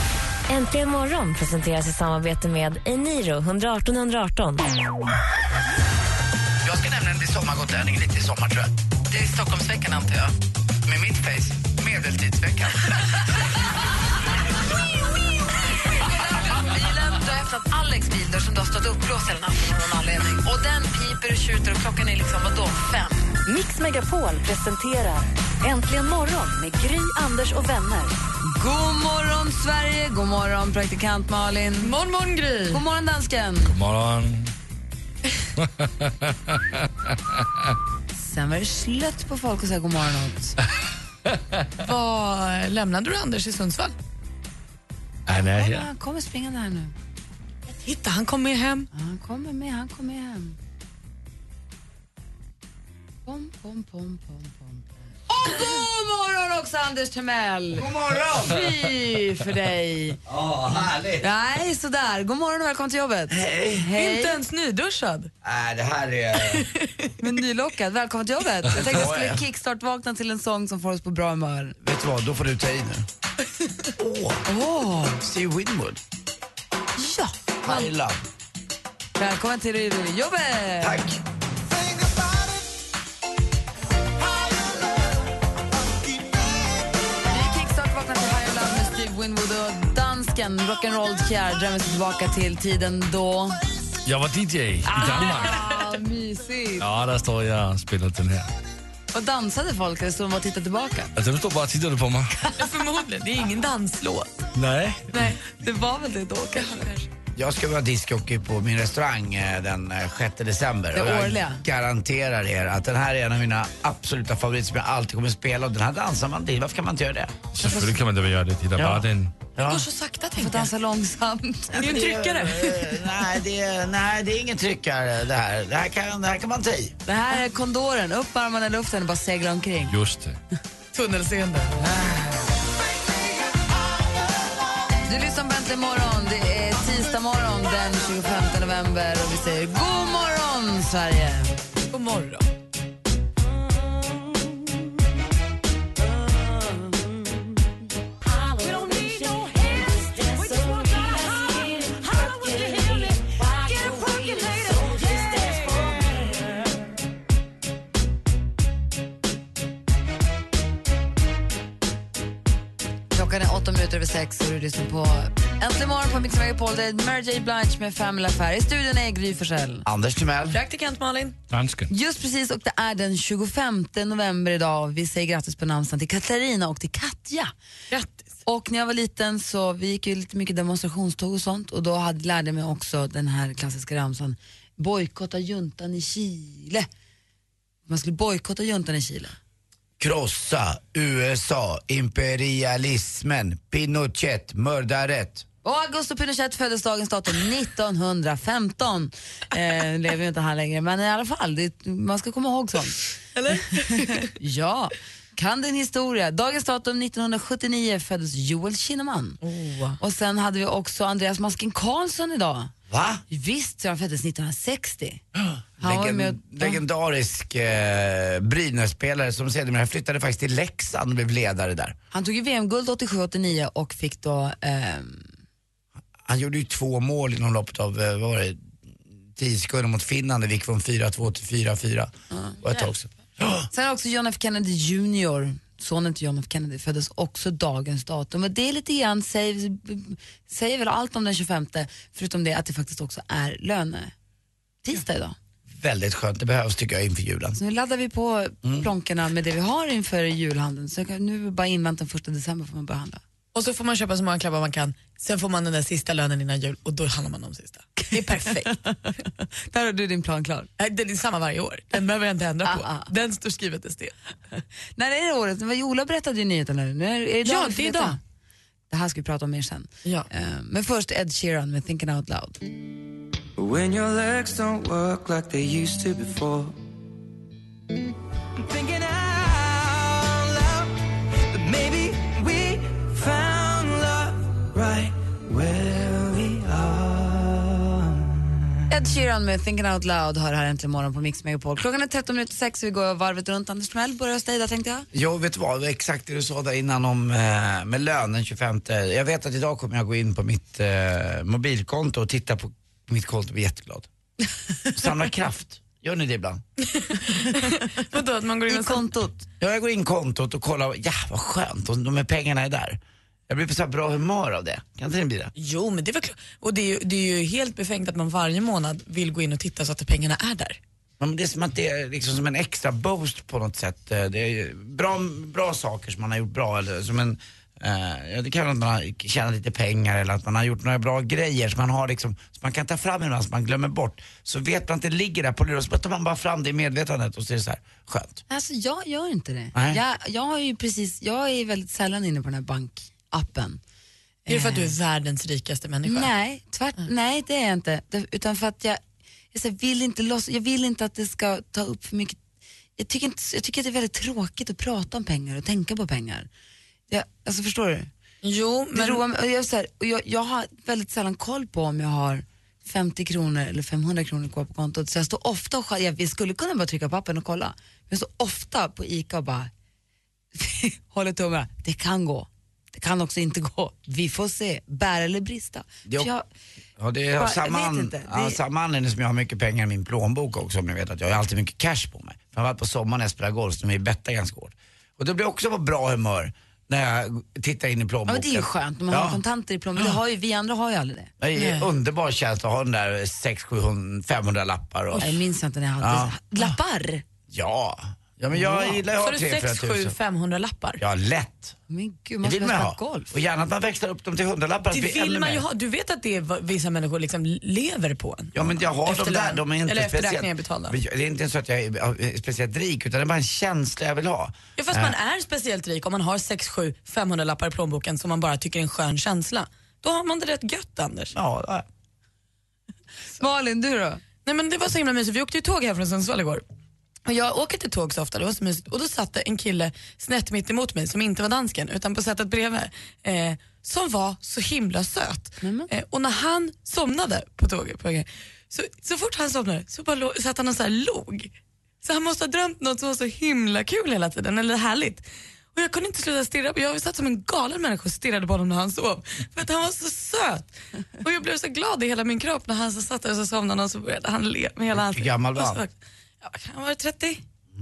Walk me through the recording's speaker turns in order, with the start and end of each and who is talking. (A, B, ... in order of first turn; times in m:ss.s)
0:00.5-0:04.7 A
0:06.6-0:08.7 B
0:09.1-0:10.3 C
0:10.8-0:13.0 B
0:15.9-0:23.3 C
0:23.5-0:28.1 D
0:28.4-0:32.0 C
0:31.8-0:32.8 E
0:32.7-0:33.8 C
0:33.6-0:34.5 F
0:35.6-0:36.8 F
0:38.1-0:40.6 C
0:41.3-0:41.6 F
0:41.8-0:43.9 E
0:45.3-0:45.9 F
0:45.5-0:46.9 C
0:47.7-0:48.9 E
0:48.9-0:50.6 C
0:53.2-1:00.2 C
0:57.8-0:58.6 B
1:00.3-1:01.2 B
1:01.2-1:04.4 C
1:03.3-1:03.9 B
1:03.9-1:05.3 E
1:05.4-1:06.7 B
1:06.4-1:07.1 E
1:07.2-1:11.8 C
1:08.7-1:09.4 B
1:11.8-1:13.1 B
1:14.0-1:14.5 B
1:14.5-1:15.2 C
1:15.2-1:16.0 B
1:17.0-1:17.8 C
1:17.6-1:18.2 B
1:19.2-1:21.0 C
1:20.8-1:21.2 B
1:21.6-1:22.7 G
1:24.2-1:26.7 G
1:27.3-1:33.6 C
1:34.0-1:35.6 F
1:35.0-1:36.9 C
1:36.8-1:38.5 F
1:39.1-1:41.1 C
1:41.2-1:42.4 F
1:42.6-1:44.3 E
1:44.6-1:45.3 F
1:45.1-1:45.4 E
1:45.4-1:46.9 C
1:46.5-1:47.1 E
1:47.3-1:57.5 B
1:50.9-1:51.6 C
1:57.5-1:59.3 F
1:58.8-1:59.9 B
1:59.6-2:00.7 E
2:00.4-2:01.9 C
2:01.8-2:06.9 B
2:01.8-2:03.0 E
2:07.0-2:09.9 C
2:09.9-2:10.4 F
2:10.9-2:12.2 E
2:15.1-2:21.5 C
2:21.9-2:22.5 E
2:28.2-2:36.4 A
2:43.1-2:49.8 C
2:49.8-2:50.6 B
2:50.5-2:51.4 E
2:51.5-2:51.9 F
2:51.9-2:57.5 C
2:57.9-2:58.3 E
2:58.4-3:06.9 C
3:07.9-3:09.4 C
3:10.0-3:15.4 B
3:15.6-3:23.0 C
3:23.3-3:24.3 E
3:24.0-3:29.4 C
3:29.4-3:30.0 E
3:30.0-3:32.7 C
3:32.9-3:33.2 B
3:33.3-3:35.2 C
3:35.3-3:42.0 B
3:35.8-3:36.8 C
3:42.1-3:45.3 C
3:46.2-3:48.6 B
3:49.4-3:52.1 B
3:52.3-3:52.6 C
3:52.6-3:53.7 B
3:53.7-4:04.1 C
4:04.8-4:05.4 C
4:05.8-4:07.6 B
4:07.6-4:13.2 C
4:13.5-4:18.7 E
4:18.7-4:19.1 C
4:19.7-4:20.7 C
4:20.8-4:24.1 E
4:22.6-4:23.1 C
4:25.0-4:28.2 C
4:27.4-4:28.2 E
4:28.9-4:32.6 C
4:33.6-4:36.8 G
4:38.6-4:48.5 G
4:48.9-4:55.1 C
4:55.1-5:04.1 B
5:04.9-5:06.6 B
5:06.9-5:09.0 E
5:07.3-5:07.8 C
5:08.7-5:09.4 C
5:09.6-5:15.5 B
5:15.6-5:20.8 E
5:21.2-5:38.4 B
5:38.5-5:43.8 C
5:39.7-5:40.0 B
5:44.4-5:44.9 C
5:44.5-5:46.3 E
5:46.0-5:49.0 C
5:49.5-5:52.4 C
5:53.0-5:56.5 C
5:57.1-5:58.1 C
5:58.4-5:59.2 E
5:58.9-6:09.7 C
6:10.5-6:16.4 C
6:16.0-6:16.3 B
6:17.0-6:29.4 B
6:17.4-6:18.6 C
6:28.3-6:31.3 C
6:31.4-6:35.3 B
6:31.5-6:31.9 E
6:35.2-6:37.2 C
6:36.0-6:36.7 B
6:37.5-6:40.2 B
6:38.6-6:38.9 C
6:39.0-6:41.0 E
6:41.0-6:41.8 B
6:41.9-6:43.3 C
6:42.4-6:45.6 B
6:44.9-6:51.0 E
6:48.5-6:55.2 B
6:54.8-7:01.3 E
7:01.3-7:01.8 B
7:03.4-7:04.2 C
7:04.4-7:06.6 E
7:07.2-7:21.5 E
7:15.6-7:15.9 C
7:22.0-7:30.7 E
7:31.2-7:37.4 E
7:34.9-7:35.8 B